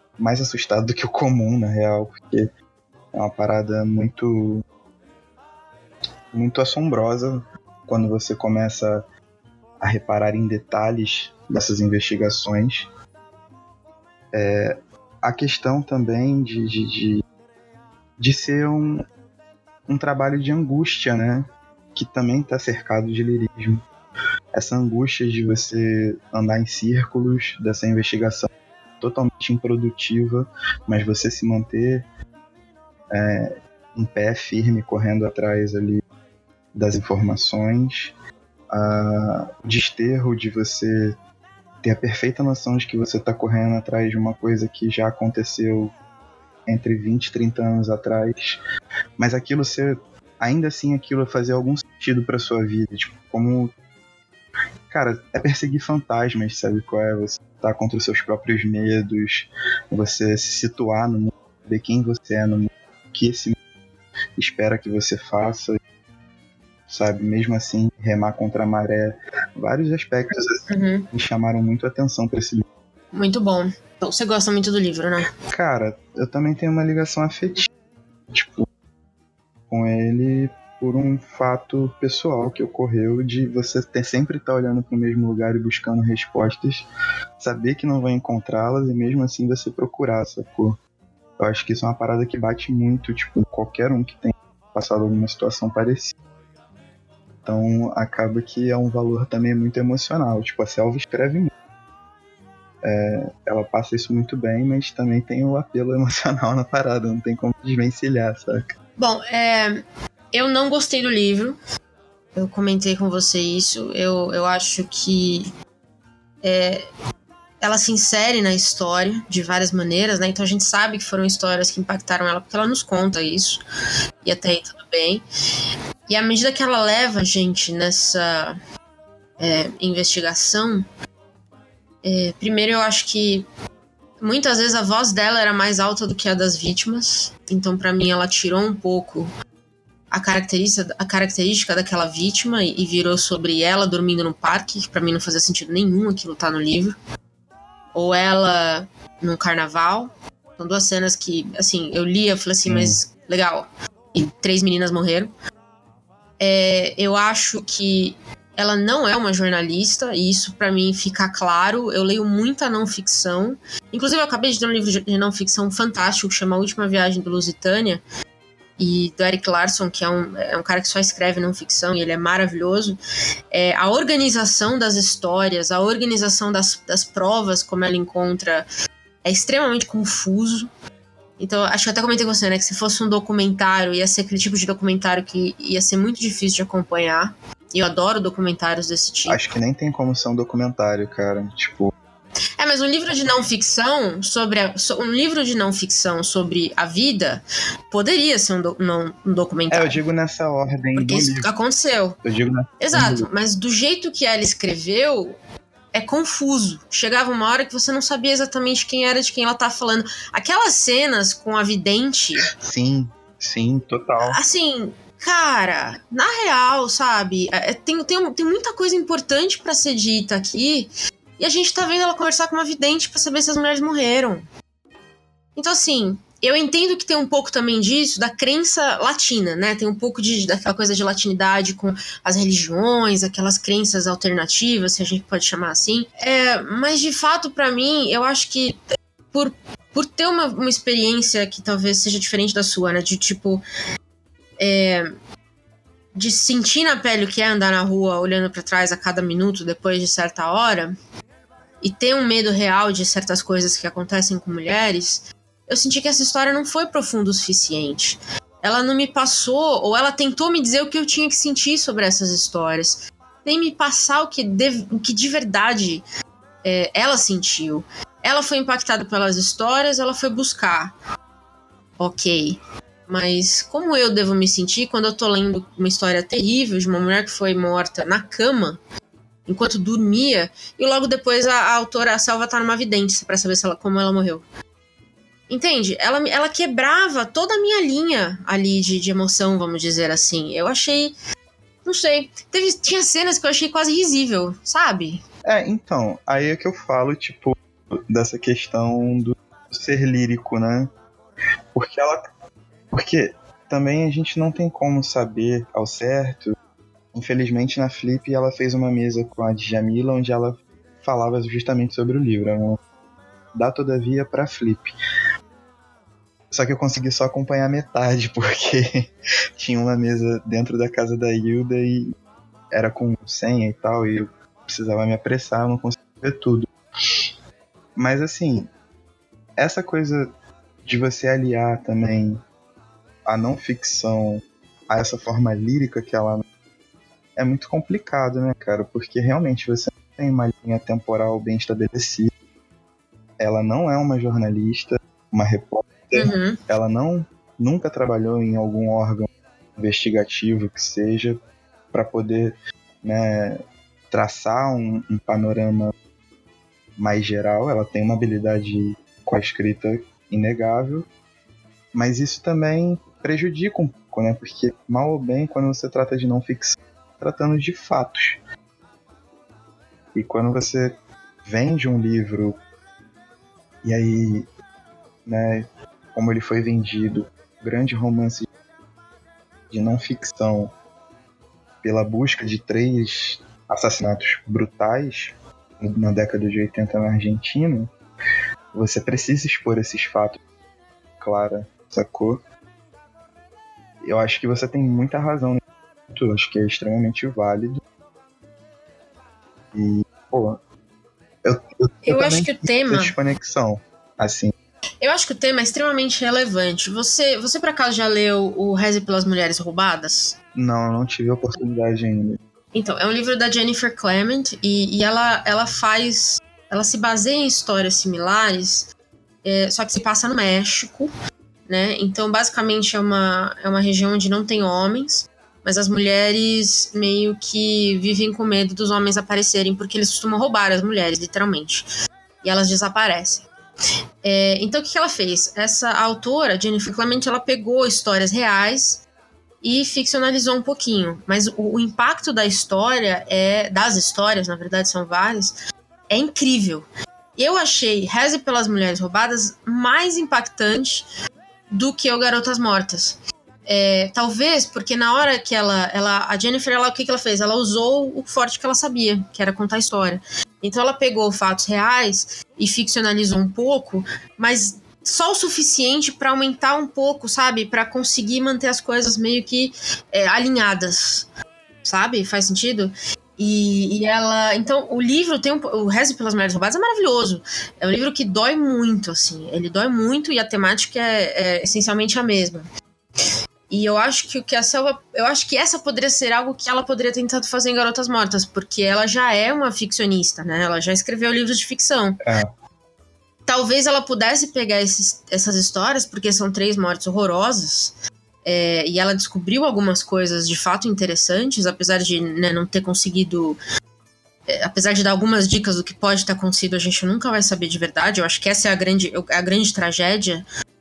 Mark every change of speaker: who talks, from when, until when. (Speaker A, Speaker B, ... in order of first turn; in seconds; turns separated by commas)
Speaker A: 0.2-2.5, Speaker A: 3.1-4.6, Speaker A: 6.3-9.0, Speaker A: 9.8-12.9, Speaker A: 14.3-17.2, Speaker A: 18.2-19.0, Speaker A: 19.9-23.9, Speaker A: 24.5-32.0, Speaker A: 33.1-36.0, Speaker A: 36.7-38.1, Speaker A: 38.7-41.1, Speaker A: 41.8-46.0, Speaker A: 46.6-48.6, Speaker A: 49.2-53.7, Speaker A: 54.9-63.6, Speaker A: 64.4-65.8, Speaker A: 66.9-72.7, Speaker B: 70.7-71.1, Speaker B: 73.1-75.3, Speaker A: 75.5-77.7, Speaker A: 78.3-78.7, Speaker A: 79.7-86.9, Speaker A: 87.4-90.8, Speaker A: 91.4-96.1, Speaker A: 97.4-101.5, Speaker A: 102.8-108.7, Speaker B: 109.0-111.6, Speaker B: 112.3-115.5, Speaker B: 116.4-116.8, Speaker B: 117.6-123.6, Speaker B: 124.2-125.2, Speaker B: 126.1-128.6, Speaker B: 129.4-130.8, Speaker B: 132.0-133.4, Speaker B: 134.2-139.3, Speaker B: 140.1-146.9, Speaker B: 147.9-155.3, Speaker A: 152.7-153.0, Speaker B: 156.4-168.0, Speaker B: 168.8-173.0, Speaker B: 173.5-178.7, Speaker B: 179.2-180.7, Speaker B: 181.4-189.4, Speaker A: 189.3-191.9, Speaker B: 192.6-200.0, Speaker A: 199.7-201.5, Speaker B: 200.9-202.2, Speaker A: 202.2-203.3, Speaker B: 202.8-205.4, Speaker B: 205.9-212.4, Speaker A: 212.6-214.4, Speaker B: 214.2-224.4, Speaker B: 225.6-238.8, Speaker B: 239.3-243.6, Speaker B: 244.6-245.1, Speaker B: 246.1-250.9, Speaker B: 251.8-266.0, Speaker B: 266.6-270.9, Speaker B: 272.0-278.8, Speaker B: 279.5-284.4, Speaker B: 285.5-291.1, Speaker B: 291.8-295.2, Speaker A: 295.4-300.9, Speaker A: 301.7-302.2, Speaker A: 302.9-306.6, Speaker A: 307.1-312.8, Speaker A: 313.5-314.9, Speaker A: 316.5-322.1, Speaker A: 322.7-327.3, Speaker A: 327.9-328.7, Speaker A: 329.6-330.3, Speaker A: 330.8-332.4, Speaker A: 333.2-336.4, Speaker A: 337.4-342.3, Speaker A: 343.4-351.4, Speaker B: 346.1-346.6, Speaker A: 351.9-355.9, Speaker A: 357.0-361.1, Speaker A: 361.9-368.4, Speaker A: 370.1-372.6, Speaker A: 373.8-374.5, Speaker A: 375.2-378.5, Speaker A: 379.7-380.7, Speaker A: 381.8-387.9, Speaker A: 388.7-390.4, Speaker A: 391.2-392.4, Speaker A: 394.0-397.8, Speaker A: 399.7-400.6, Speaker A: 401.4-404.5, Speaker B: 402.0-403.1, Speaker B: 405.0-410.4, Speaker A: 410.5-412.4, Speaker B: 412.7-418.9, Speaker B: 419.4-421.1, Speaker B: 421.7-431.9, Speaker B: 432.4-433.5, Speaker B: 434.2-439.0, Speaker B: 439.6-445.6, Speaker B: 446.1-451.1, Speaker B: 451.7-471.3, Speaker B: 471.8-482.6, Speaker B: 483.7-492.2, Speaker A: 492.2-492.5, Speaker B: 493.4-503.6, Speaker B: 504.5-510.4